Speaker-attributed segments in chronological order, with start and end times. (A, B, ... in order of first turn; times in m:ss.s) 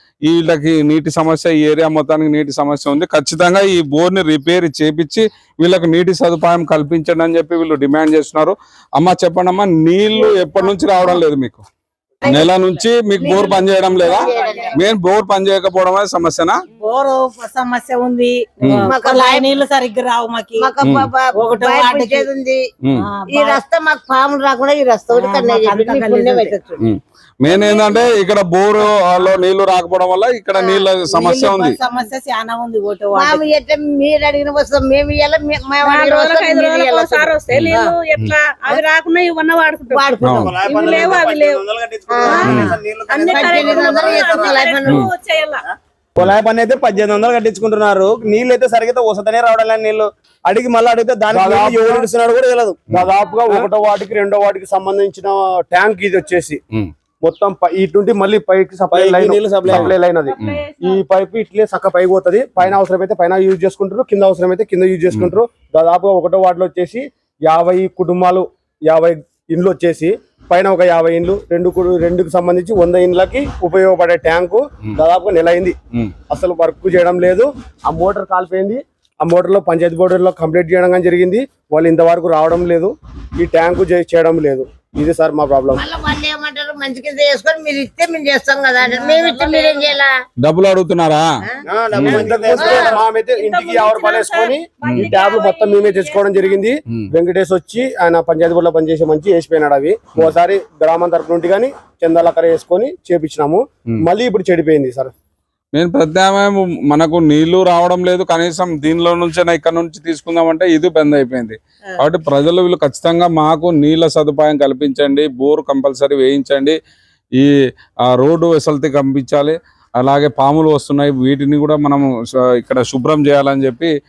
0:00.3-0:11.6 A
0:12.2-0:12.5 B
0:12.2-0:16.6 A
0:13.2-0:14.8 B
0:14.0-0:14.7 C
0:16.8-0:20.7 C
0:18.6-0:18.9 A
0:18.7-0:19.6 B
0:20.6-0:22.6 B
0:20.8-0:21.1 A
0:21.3-0:22.3 C
0:22.8-0:23.1 A
0:23.0-0:23.6 C
0:23.3-0:26.8 B
0:25.1-0:26.6 C
0:26.8-0:31.8 A
0:30.5-0:30.9 B
0:31.1-0:33.5 C
0:33.1-0:37.9 B
0:35.8-0:41.6 D
0:37.5-0:38.3 A
0:39.9-0:41.0 B
0:40.2-0:40.5 A
0:40.4-0:44.3 E
0:42.1-0:45.1 B
0:42.3-0:42.7 C
0:42.4-0:42.7 A
0:43.1-0:45.6 D
0:46.2-0:53.7 E
0:51.3-0:52.1 F
0:52.9-0:56.6 F
0:57.2-1:15.7 F
0:58.9-0:59.9 E
0:59.7-1:00.6 A
1:00.2-1:01.0 D
1:16.3-1:25.8 F
1:25.7-1:30.1 B
1:28.8-1:29.7 D
1:30.4-1:31.2 A
1:31.6-1:33.0 E
1:31.9-1:32.3 A
1:32.0-1:45.1 F
1:32.5-1:33.0 B
1:33.3-1:36.6 D
1:34.8-1:35.1 A
1:45.7-1:56.8 A
1:58.1-2:03.9 A